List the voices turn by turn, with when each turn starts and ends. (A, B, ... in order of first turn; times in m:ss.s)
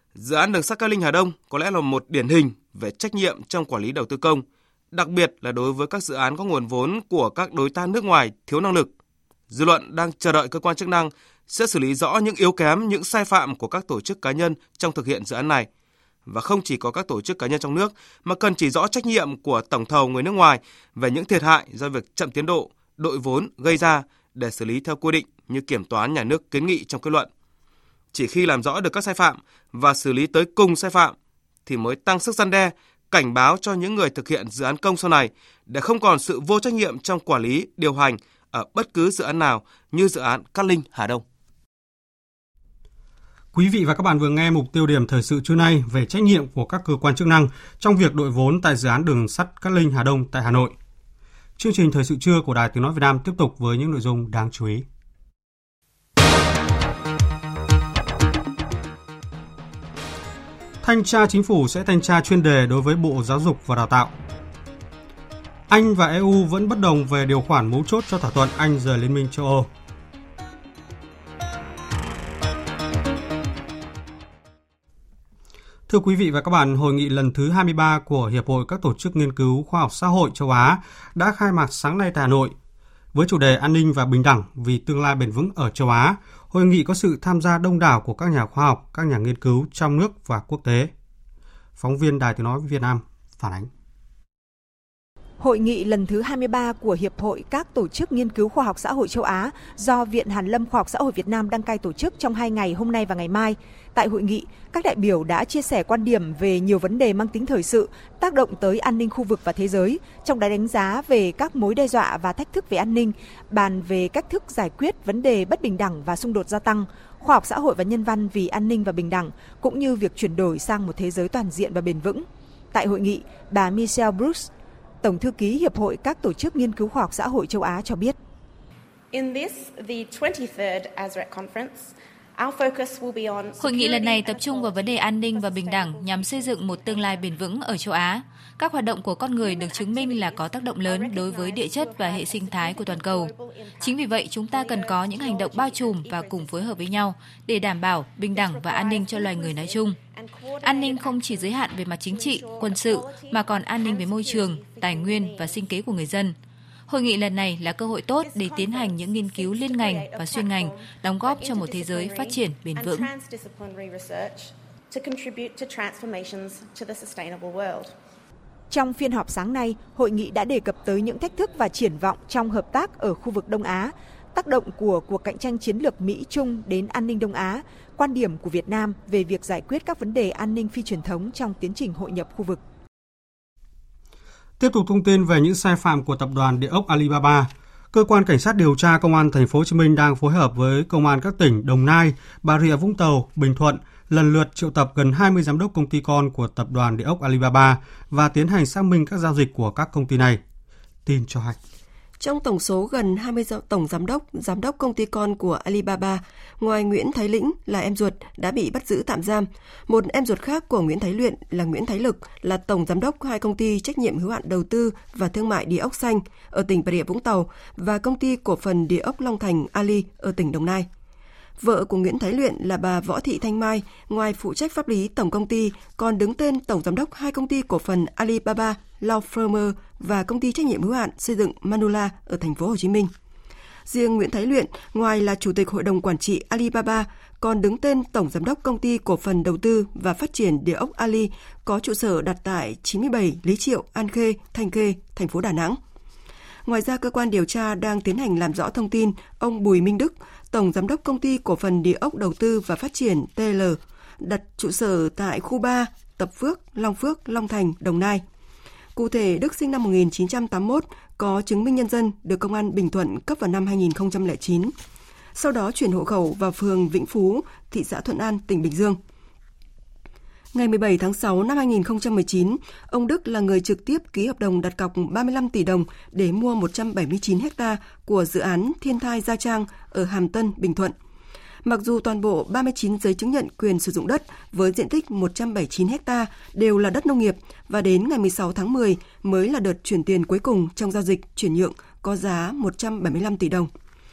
0:00.2-0:08.9 A
0:09.5-0:15.7 A
0:16.3-0:27.3 A
0:28.1-0:31.2 A
0:31.7-0:41.2 A
0:43.5-0:50.7 B
0:51.6-0:54.8 B
1:00.8-1:04.1 B
1:05.7-1:09.7 B
1:15.9-1:22.5 B
1:23.1-1:30.9 B
1:31.8-1:33.7 B
1:35.4-2:04.5 C
2:05.0-2:08.2 C
2:09.1-2:17.0 D
2:13.6-2:30.0 E
2:19.4-2:26.6 D
2:28.4-2:31.1 D
2:30.6-2:36.4 E
2:32.1-2:35.5 D
2:36.9-2:43.0 E
2:38.2-2:47.9 D
2:48.7-3:02.6 C
3:04.6-3:20.4 B
3:21.1-3:21.6 B
3:22.2-3:40.9 F
3:41.6-3:53.1 F
3:53.9-4:05.8 F
4:06.6-4:18.2 F
4:19.0-4:24.7 F
4:25.4-4:29.0 F
4:30.5-4:41.0 F
4:41.6-4:53.7 F